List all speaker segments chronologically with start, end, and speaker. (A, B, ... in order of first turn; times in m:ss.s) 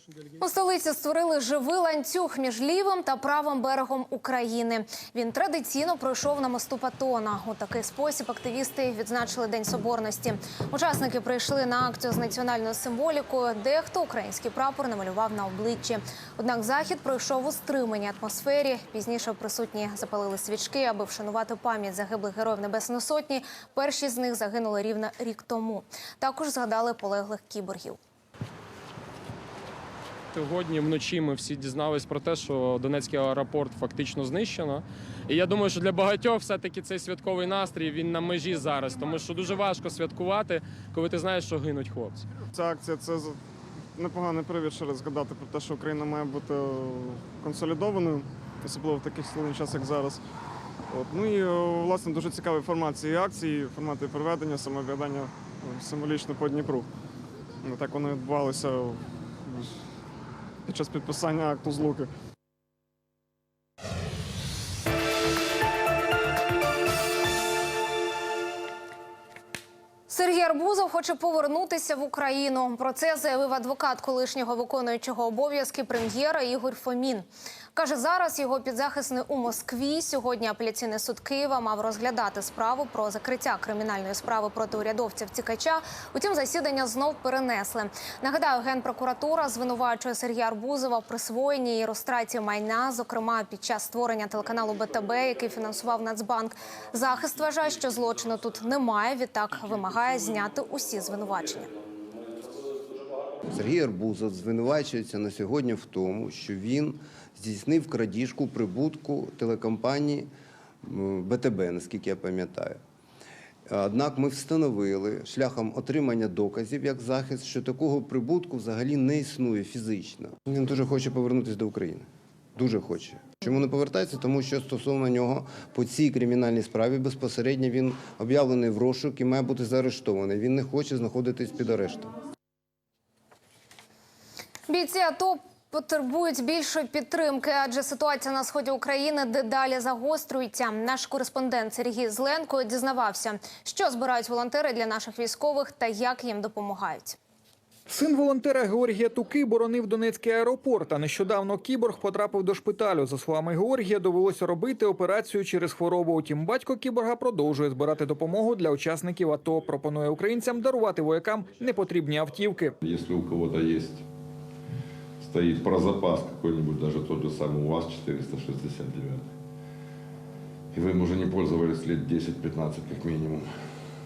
0:00.4-0:28.0 A
0:30.3-0:42.2 B
0:42.5-0:43.4 C
0:43.9-0:50.2 C
0:50.9-0:56.9 C
0:57.6-0:59.8 C
1:00.6-1:02.1 C
1:10.1-1:41.7 A
1:43.4-1:50.3 D
1:50.8-1:52.8 D
1:53.7-2:12.1 D
2:14.7-2:27.2 A
2:27.9-2:42.7 E
2:42.8-2:44.0 F
2:45.2-2:49.2 F
2:50.7-2:53.5 F